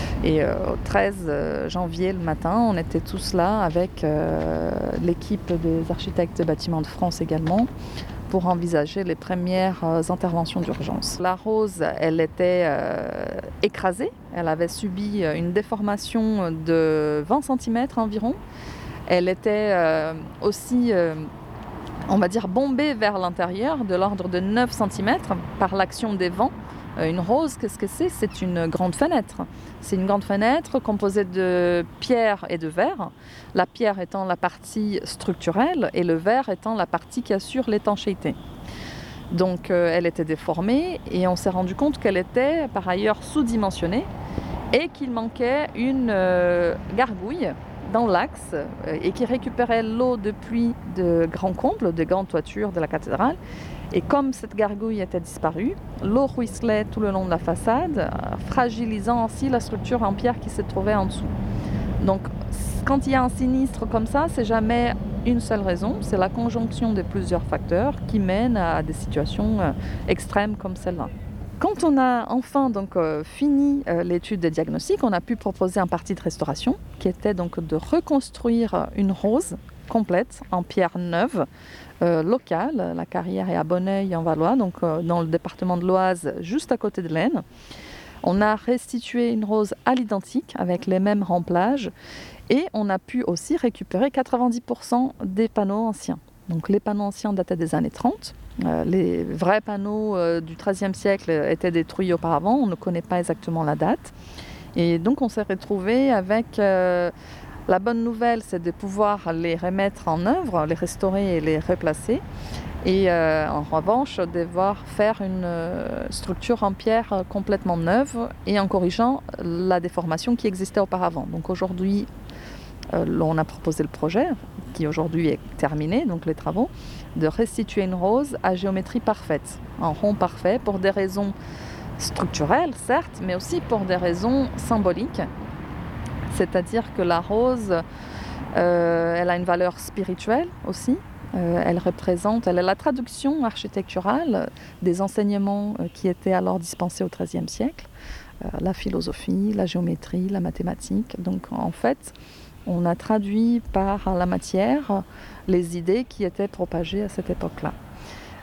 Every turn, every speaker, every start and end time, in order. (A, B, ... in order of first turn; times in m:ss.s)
0:00.2-0:07.7 A
0:08.3-0:18.4 A
0:19.1-0:21.3 A
0:22.1-0:38.4 A
0:39.3-0:44.1 A
0:44.7-0:53.4 A
0:53.9-1:01.3 A
1:02.0-1:21.5 A
1:22.0-1:27.4 A
1:28.2-1:31.9 A
1:32.5-1:44.1 A
1:44.8-1:47.1 A
1:47.7-1:52.2 A
1:52.8-2:02.1 A
2:02.9-2:11.3 A
2:12.0-2:15.2 A
2:16.3-2:17.8 A
2:18.6-2:27.9 A
2:28.4-2:32.1 A
2:32.7-2:37.8 A